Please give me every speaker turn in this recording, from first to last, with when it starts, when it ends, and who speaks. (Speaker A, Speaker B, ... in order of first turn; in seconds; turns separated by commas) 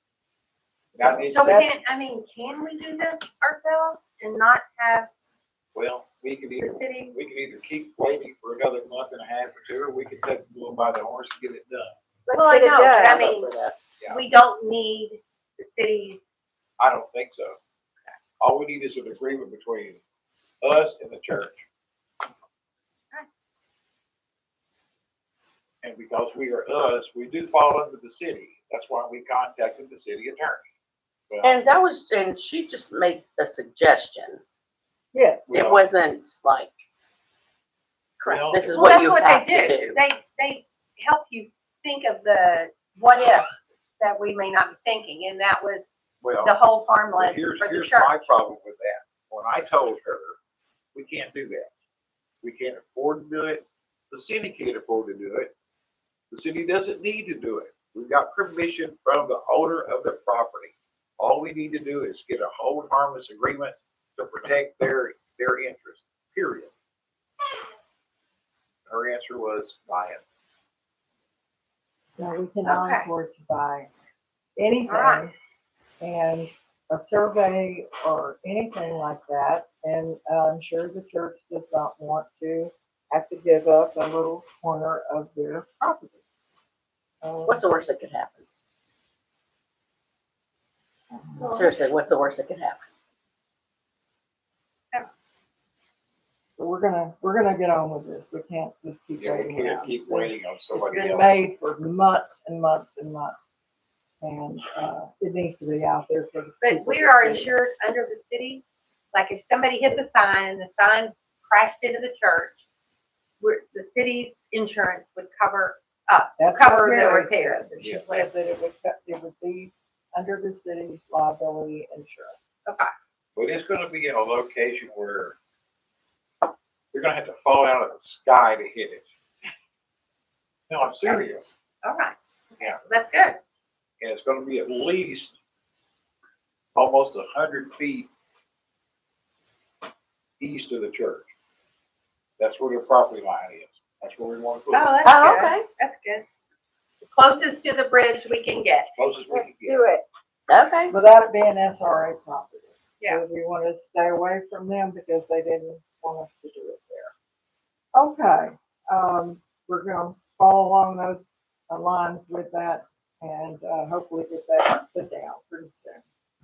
Speaker A: 0.9-2.0, Speaker B: 0.9-1.7, Speaker C: 1.3-5.1, Speaker B: 5.7-11.9, Speaker C: 6.6-7.2, Speaker C: 12.3-13.5, Speaker A: 12.3-13.2, Speaker D: 13.0-13.8, Speaker C: 14.1-16.3, Speaker B: 16.8-17.6, Speaker B: 18.4-20.0, Speaker B: 20.6-21.6, Speaker B: 25.8-30.7, Speaker B: 31.3-31.6, Speaker D: 31.4-34.4, Speaker A: 35.1-35.5, Speaker B: 35.5-35.8, Speaker D: 35.5-36.7, Speaker C: 38.2-45.9, Speaker B: 38.2-38.9, Speaker D: 38.5-40.0, Speaker B: 46.2-46.6, Speaker C: 46.4-48.2, Speaker B: 47.1-50.4, Speaker B: 50.9-51.7, Speaker B: 52.4-55.5, Speaker B: 56.3-66.7, Speaker B: 68.9-70.2, Speaker A: 72.2-73.9, Speaker C: 72.6-73.1, Speaker A: 74.5-75.3, Speaker C: 74.9-75.2, Speaker A: 76.0-86.2, Speaker A: 87.2-87.6, Speaker D: 87.4-88.4, Speaker A: 91.1-91.5, Speaker C: 91.4-92.0, Speaker D: 91.5-92.8, Speaker A: 96.6-103.4, Speaker B: 99.2-101.4, Speaker A: 104.2-107.5, Speaker C: 106.6-112.6, Speaker C: 113.4-118.3, Speaker A: 116.4-122.4, Speaker C: 122.7-122.9, Speaker B: 123.3-125.3, Speaker B: 126.9-129.1, Speaker B: 130.7-131.4, Speaker C: 131.8-133.4, Speaker B: 134.0-135.4, Speaker B: 136.7-138.1, Speaker B: 140.4-141.3, Speaker B: 142.4-144.9, Speaker C: 144.7-146.2, Speaker D: 145.0-145.6, Speaker C: 147.0-148.9, Speaker B: 148.9-149.9, Speaker A: 149.3-150.0, Speaker D: 150.5-150.9, Speaker A: 150.9-157.1, Speaker A: 157.9-166.0